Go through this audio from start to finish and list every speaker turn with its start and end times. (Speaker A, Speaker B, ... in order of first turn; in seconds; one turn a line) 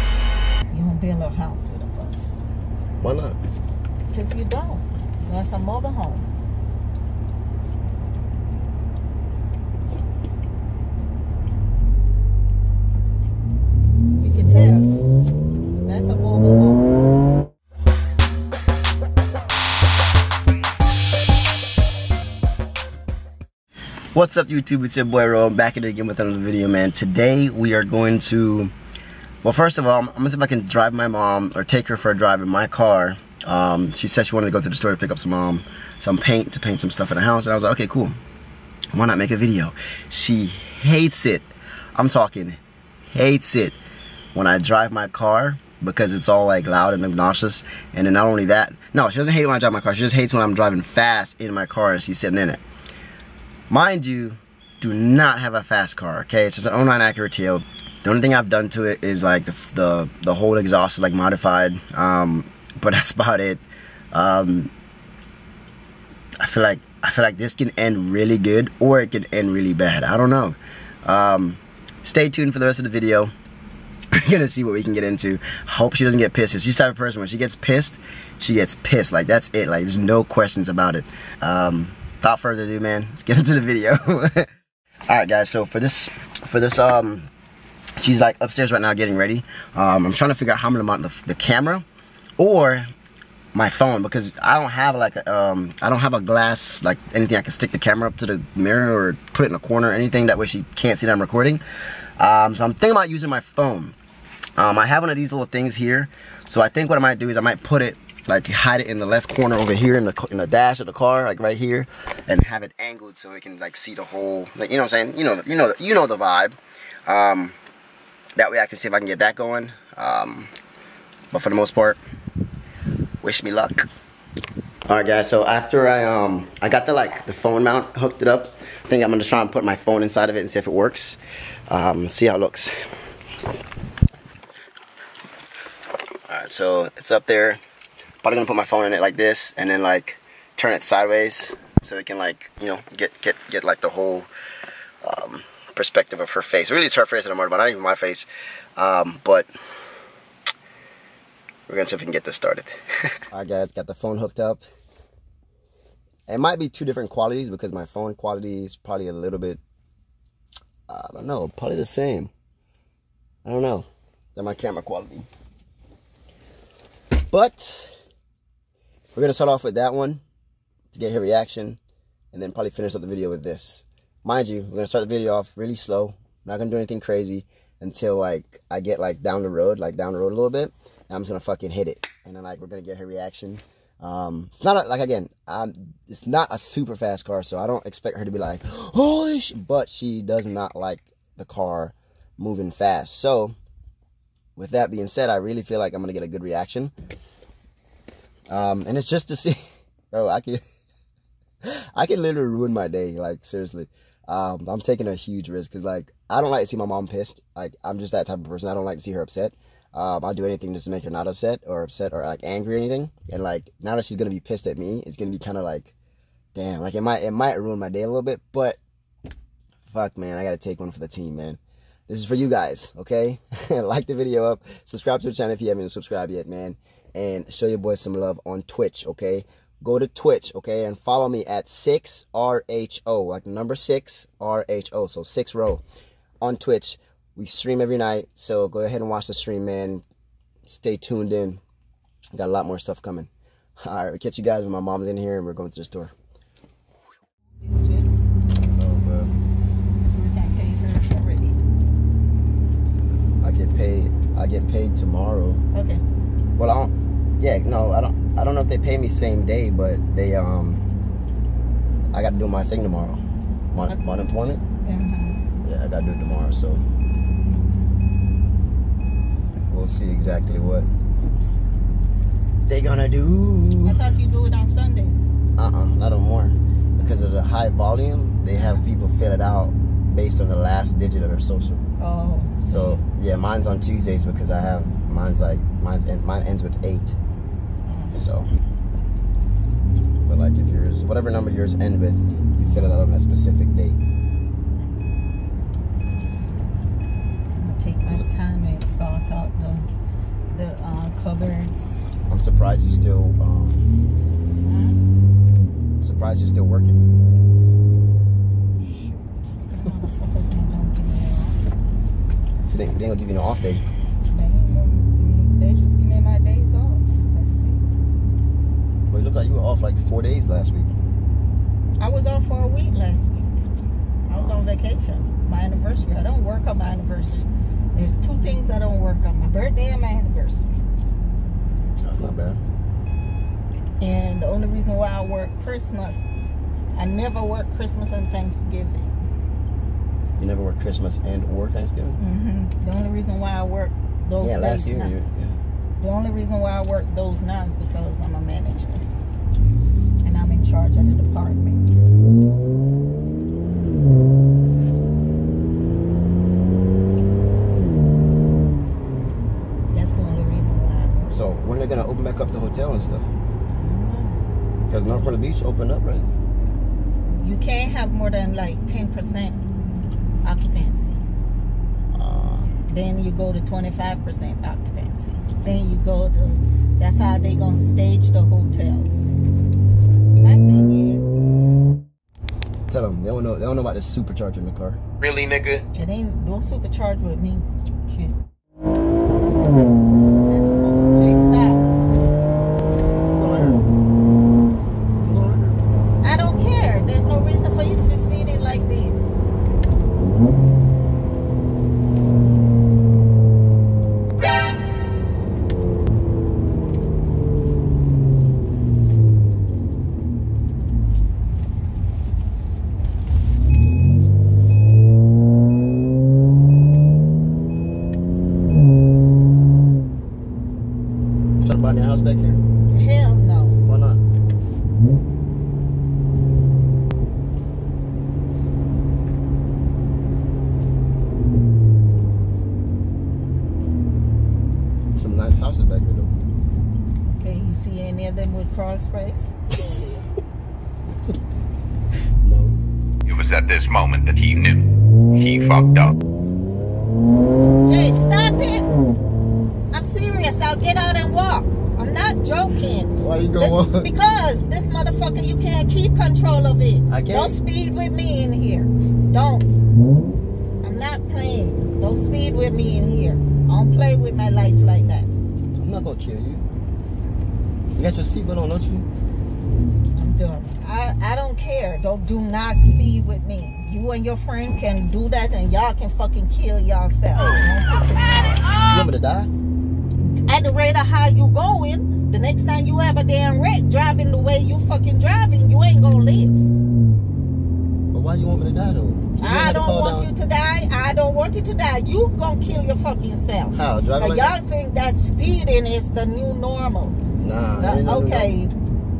Speaker A: 0.7-2.3
Speaker B: 3.0-3.4
Speaker A: 4.1-6.3
Speaker A: 14.2-14.9
Speaker A: 15.9-16.9
Speaker B: 24.1-28.7
Speaker B: 29.4-38.2
Speaker B: 38.9-42.6
Speaker B: 43.1-43.8
Speaker B: 44.3-52.6
Speaker B: 53.7-64.7
Speaker B: 66.4-73.3
Speaker B: 74.1-84.5
Speaker B: 85.1-87.3
Speaker B: 88.0-91.8
Speaker B: 92.4-92.8
Speaker B: 93.5-101.6
Speaker B: 102.2-104.0
Speaker B: 104.6-117.5
Speaker B: 118.3-120.5
Speaker B: 121.3-122.0
Speaker B: 123.2-123.9
Speaker B: 124.9-131.2
Speaker B: 131.7-132.7
Speaker B: 136.3-137.6
Speaker B: 138.2-144.3
Speaker B: 145.0-149.5
Speaker B: 151.7-154.6
Speaker B: 156.3-159.6
Speaker B: 160.9-162.3
Speaker B: 163.4-165.3
Speaker B: 167.3-167.9
Speaker B: 169.2-170.2
Speaker B: 170.9-171.8
Speaker B: 172.3-193.6
Speaker B: 194.6-196.9
Speaker B: 198.5-199.6
Speaker B: 200.1-200.6
Speaker B: 201.6-215.9
Speaker B: 216.5-218.8
Speaker B: 219.9-235.8
Speaker B: 236.4-240.0
Speaker B: 240.7-241.6
Speaker B: 242.3-243.3
Speaker B: 243.8-246.1
Speaker A: 247.6-248.1
Speaker B: 248.6-249.3
Speaker A: 250.1-251.6
Speaker B: 253.4-255.6
Speaker A: 255.7-256.0
Speaker B: 256.6-260.8
Speaker B: 262.1-263.2
Speaker B: 263.7-264.6
Speaker A: 264.8-265.4
Speaker B: 265.6-266.8
Speaker A: 267.4-267.8
Speaker B: 269.7-270.9
Speaker B: 272.7-274.0
Speaker A: 273.8-275.3
Speaker B: 275.6-281.8
Speaker A: 278.5-278.8
Speaker A: 282.0-283.0
Speaker B: 282.6-287.1
Speaker A: 287.9-288.1
Speaker B: 288.1-288.5
Speaker B: 290.3-294.0
Speaker A: 297.5-299.9
Speaker A: 300.5-302.1
Speaker B: 302.3-303.8
Speaker A: 304.6-305.0
Speaker B: 306.0-307.0
Speaker A: 308.8-311.6
Speaker B: 312.7-313.8
Speaker A: 314.3-317.8
Speaker B: 319.1-320.9
Speaker A: 322.0-323.6
Speaker A: 324.3-330.7
Speaker B: 324.3-324.6
Speaker B: 332.0-332.6
Speaker A: 334.0-336.3
Speaker A: 336.9-339.3
Speaker B: 340.4-342.2
Speaker A: 342.2-345.1
Speaker B: 344.4-345.6
Speaker A: 346.0-349.0
Speaker A: 350.2-352.0
Speaker A: 359.9-361.3
Speaker B: 361.3-363.3
Speaker A: 363.7-364.4
Speaker B: 364.9-366.3
Speaker A: 367.3-369.6
Speaker A: 370.4-371.2
Speaker B: 372.1-372.7
Speaker A: 372.9-379.4
Speaker A: 380.4-381.5
Speaker B: 382.9-385.0
Speaker C: 385.2-385.8
Speaker A: 385.9-388.4
Speaker A: 390.4-391.8
Speaker B: 393.2-393.9
Speaker B: 395.2-395.8
Speaker A: 396.2-399.4
Speaker B: 421.6-422.6
Speaker A: 422.9-423.8
Speaker B: 423.8-424.2
Speaker B: 435.1-436.3
Speaker A: 437.2-439.5
Speaker B: 442.4-442.8
Speaker C: 443.3-444.8
Speaker C: 445.3-446.1
Speaker A: 447.8-448.9
Speaker A: 449.9-459.7
Speaker B: 453.2-454.1
Speaker B: 457.1-457.5
Speaker A: 460.8-465.3
Speaker B: 465.8-466.7
Speaker B: 467.9-469.1
Speaker A: 470.1-478.7
Speaker B: 478.7-479.5
Speaker A: 480.2-486.6
Speaker B: 488.1-490.3
Speaker A: 489.4-497.2
Speaker B: 493.8-494.6
Speaker B: 497.4-498.6
Speaker A: 497.8-498.7